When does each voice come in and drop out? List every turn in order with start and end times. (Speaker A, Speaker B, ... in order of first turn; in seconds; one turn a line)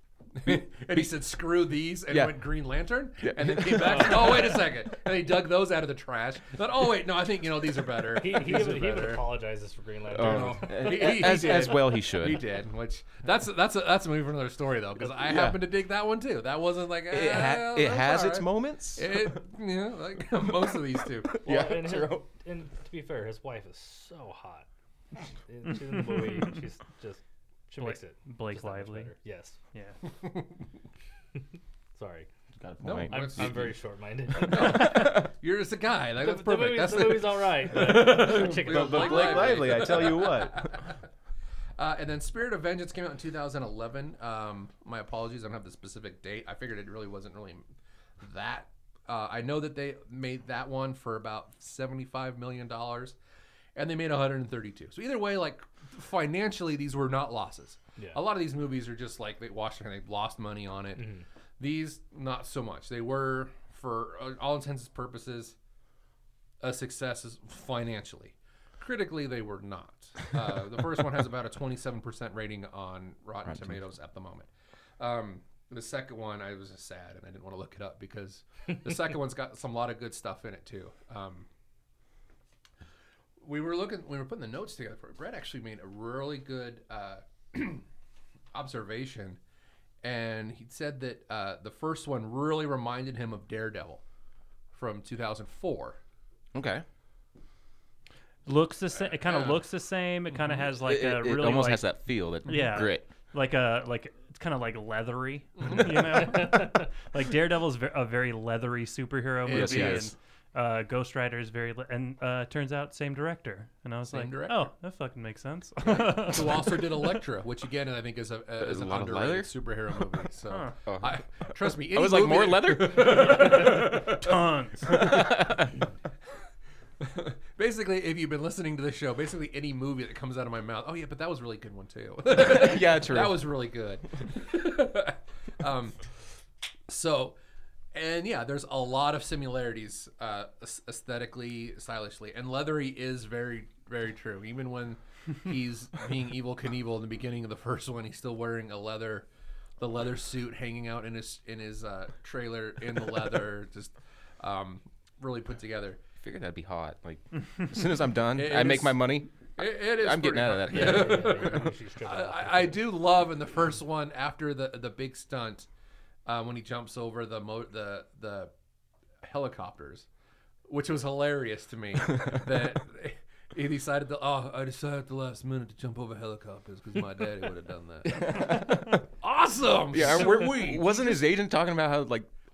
Speaker A: 0.3-9.2
Speaker B: 2.1-2.4
Speaker B: 3.2-4.6
Speaker C: 3.9-4.3
Speaker C: 8.1-11.6
Speaker B: 10.1-12.4
Speaker A: 10.2-21.3
Speaker C: 15.0-15.3
Speaker B: 15.2-15.6
Speaker B: 17.1-19.3
Speaker B: 21.3-22.2
Speaker C: 21.4-24.7
Speaker C: 25.5-29.6
Speaker D: 27.8-29.1
Speaker D: 29.7-30.0
Speaker A: 30.2-30.5
Speaker C: 31.9-32.3
Speaker B: 32.5-33.7
Speaker A: 32.8-33.7
Speaker C: 33.1-35.2
Speaker A: 34.4-40.9
Speaker B: 34.7-35.1
Speaker C: 36.2-40.0
Speaker B: 38.0-40.8
Speaker A: 41.8-47.6
Speaker A: 48.2-53.2
Speaker A: 53.8-61.1
Speaker C: 61.0-61.2
Speaker A: 61.6-65.5
Speaker A: 66.6-74.5
Speaker B: 73.5-73.8
Speaker A: 75.0-81.5
Speaker A: 83.4-87.8
Speaker A: 88.5-89.4
Speaker A: 90.0-94.0
Speaker A: 94.7-96.0
Speaker B: 96.5-96.8
Speaker D: 98.5-101.9
Speaker A: 99.2-99.6
Speaker B: 100.8-103.1
Speaker D: 102.4-117.1
Speaker A: 105.6-106.3
Speaker A: 109.4-110.1
Speaker B: 109.5-110.1
Speaker A: 114.1-114.7
Speaker A: 115.9-125.1
Speaker B: 118.6-119.5
Speaker B: 120.9-121.1
Speaker B: 121.9-123.6
Speaker D: 123.3-125.0
Speaker B: 124.8-125.8
Speaker A: 127.0-136.0
Speaker B: 132.3-133.4
Speaker A: 136.9-137.3
Speaker A: 137.9-149.3
Speaker A: 149.8-156.0
Speaker B: 156.2-161.6
Speaker A: 158.3-165.7
Speaker C: 160.7-162.8
Speaker A: 166.2-168.5
Speaker A: 169.2-170.1
Speaker A: 170.7-181.3
Speaker B: 178.1-179.0
Speaker B: 179.9-182.3